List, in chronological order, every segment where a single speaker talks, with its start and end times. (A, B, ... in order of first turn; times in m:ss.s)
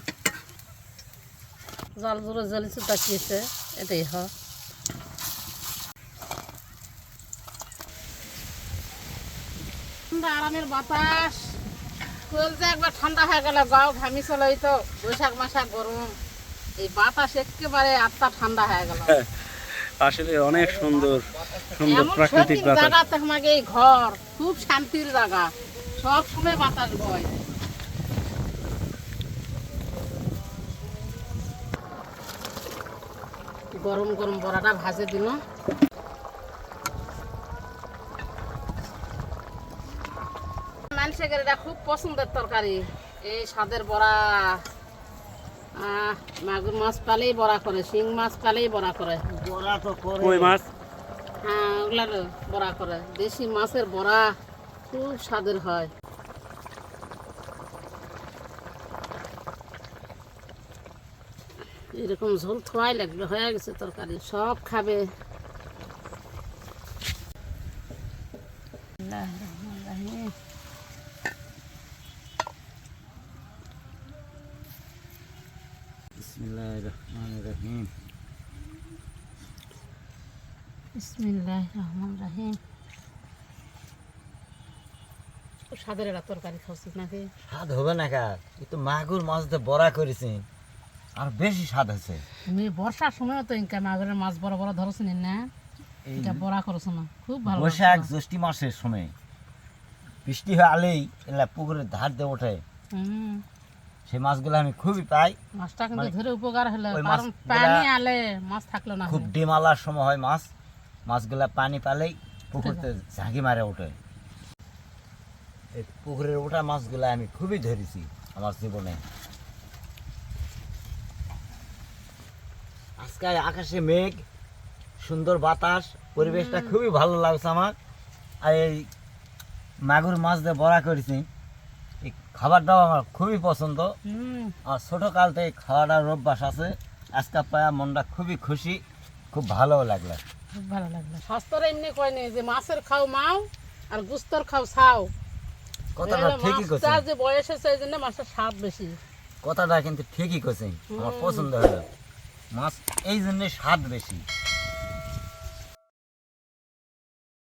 0:02.0-0:04.3 A
0:10.1-0:11.5 A
0:12.3-0:16.1 A
0:16.8-0:19.2 A
0:19.1-0:23.0 B
0:20.5-0:22.6 C
0:21.8-0:27.3 A
0:33.8-0:35.4 A
0:40.9-0:44.6 A
0:45.8-0:49.2 A
0:49.3-0:50.6 C
0:50.2-0:50.7 B
0:51.4-0:54.3 A
0:54.9-0:55.9 A
1:01.9-1:05.1 A
1:09.0-1:10.3 A
1:16.2-1:17.9 C
1:21.0-1:22.6 A
1:25.7-1:27.3 A
1:27.5-1:30.5 C
1:31.2-1:32.2 C
1:32.5-1:35.5 A
1:36.0-1:36.4 C
1:36.2-1:38.1 A
1:37.5-1:39.1 C
1:40.2-1:42.6 C
1:42.9-1:43.4 A
1:44.1-1:45.4 C
1:45.6-1:49.3 A
1:46.9-1:47.9 C
1:49.1-1:50.5 C
1:51.1-1:54.0 C
1:52.6-1:52.9 A
1:55.7-1:59.0 C
2:03.0-2:04.2 C
2:05.0-2:07.8 C
2:06.2-2:06.8 A
2:08.4-2:08.9 C
2:09.8-2:11.3 C
2:12.0-2:13.9 C
2:14.1-2:14.6 A
2:14.6-2:20.2 C
2:20.5-2:25.1 A
2:26.0-2:27.0 C
2:26.0-2:29.0 A
2:29.4-2:31.9 C
2:30.9-2:31.5 A
2:32.5-2:34.2 C